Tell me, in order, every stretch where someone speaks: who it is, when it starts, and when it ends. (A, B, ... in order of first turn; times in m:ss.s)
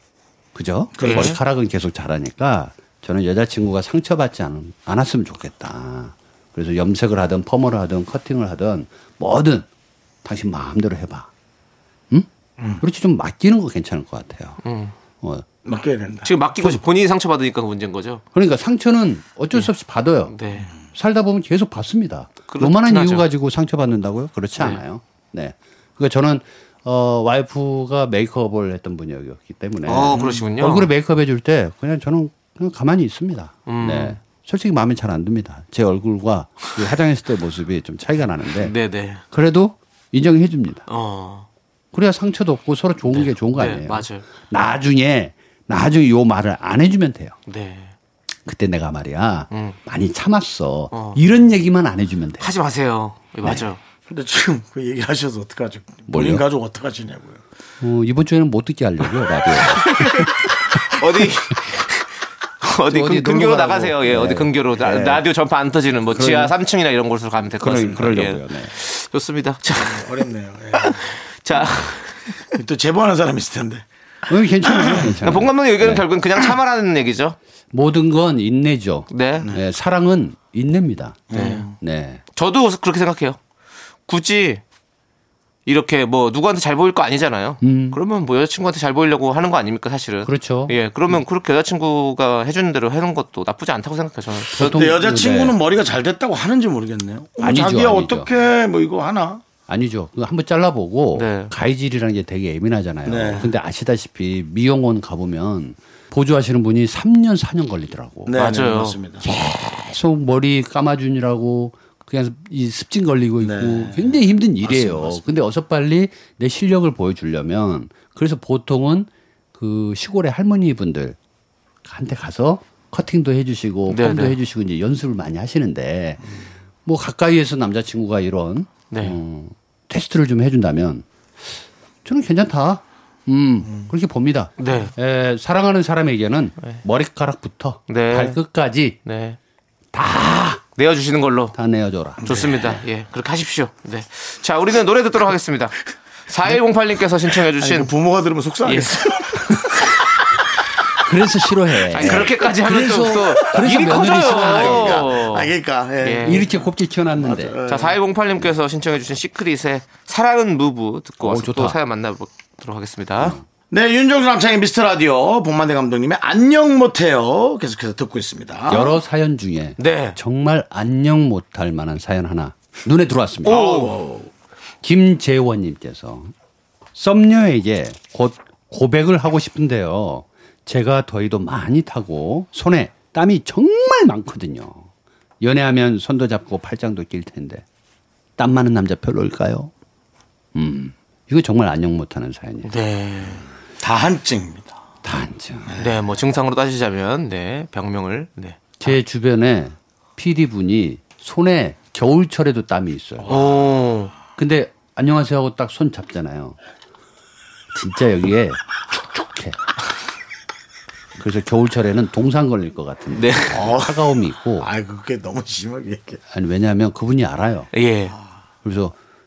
0:00.6-0:09.7 A
0:01.0-0:01.4 B
0:01.0-0:01.4 C
0:10.2-0:11.3 A
0:12.8-0:14.6 A
0:14.6-0:14.9 C
0:15.2-0:15.5 A
0:15.6-0:16.8 B
0:16.2-0:18.2 C
0:18.3-0:20.3 A
0:20.3-0:20.7 C
0:20.9-0:38.7 A
0:22.5-0:23.2 C
0:29.9-0:30.9 C
0:33.7-0:34.2 C
0:38.6-0:39.2 C
0:39.3-0:40.9 A
0:40.9-0:41.5 C
0:41.9-0:47.4 A
0:43.1-0:44.2 C
0:47.5-0:47.9 C
0:48.5-0:52.5 A
0:49.5-0:49.8 C
0:50.9-0:51.2 C
0:52.4-0:53.8 C
0:54.1-0:57.4 B
0:56.1-0:56.4 A
0:57.8-1:00.4 A
0:59.7-1:02.1 C
1:02.6-1:10.1 C
1:02.9-1:05.3 A
1:06.1-1:06.5 A
1:07.6-1:08.7 A
1:09.8-1:11.0 B
1:10.7-1:12.4 C
1:12.5-1:13.9 B
1:14.3-1:16.0 A
1:14.6-1:15.1 B
1:15.2-1:17.4 C
1:17.7-1:22.2 A
1:19.1-1:19.5 C
1:21.3-1:21.8 B
1:21.3-1:21.6 C
1:22.4-1:23.4 C
1:24.1-1:24.6 C
1:25.7-1:34.8 C
1:27.6-1:28.0 A
1:30.2-1:31.2 A
1:34.6-1:35.6 A
1:34.6-1:39.4 B
1:37.4-1:38.3 A
1:39.7-1:48.4 A
1:41.2-1:41.5 C
1:43.1-1:43.5 B
1:48.3-1:49.3 B
1:48.3-1:49.0 C
1:49.2-2:01.2 A
1:53.4-1:55.2 B
2:01.8-2:11.0 A
2:03.9-2:04.4 C
2:08.9-2:09.2 C
2:12.0-2:19.0 A
2:14.6-2:14.9 C
2:17.9-2:18.4 C
2:19.0-2:19.4 C
2:19.9-2:20.6 A
2:20.8-2:21.6 C
2:21.5-2:22.2 A
2:22.2-2:22.8 B
2:22.2-2:27.9 C
2:27.6-2:29.5 B
2:28.7-2:29.2 C
2:31.0-2:35.1 A
2:31.9-2:36.4 C
2:32.0-2:32.3 B
2:33.4-2:38.0 B
2:36.2-2:37.6 A
2:37.7-2:43.4 C
2:41.2-2:41.8 A
2:43.7-2:49.0 B
2:48.7-2:53.7 A
2:49.8-2:50.2 C
2:53.4-2:54.3 B
2:53.5-2:54.0 C
2:54.8-2:56.3 A
2:57.0-3:04.9 A
3:05.4-3:07.6 A
3:08.4-3:09.7 A
3:10.6-3:12.7 A
3:12.7-3:13.5 C
3:13.8-3:14.8 B
3:15.0-3:15.8 A
3:15.8-3:18.9 C
3:18.8-3:23.4 A
3:23.3-3:24.1 C
3:24.4-3:26.6 A
3:27.7-3:29.6 A
3:31.2-3:34.7 A
3:33.1-3:33.6 C
3:33.5-3:36.2 B
3:36.3-3:37.7 A
3:37.7-3:38.2 C
3:38.6-3:39.0 A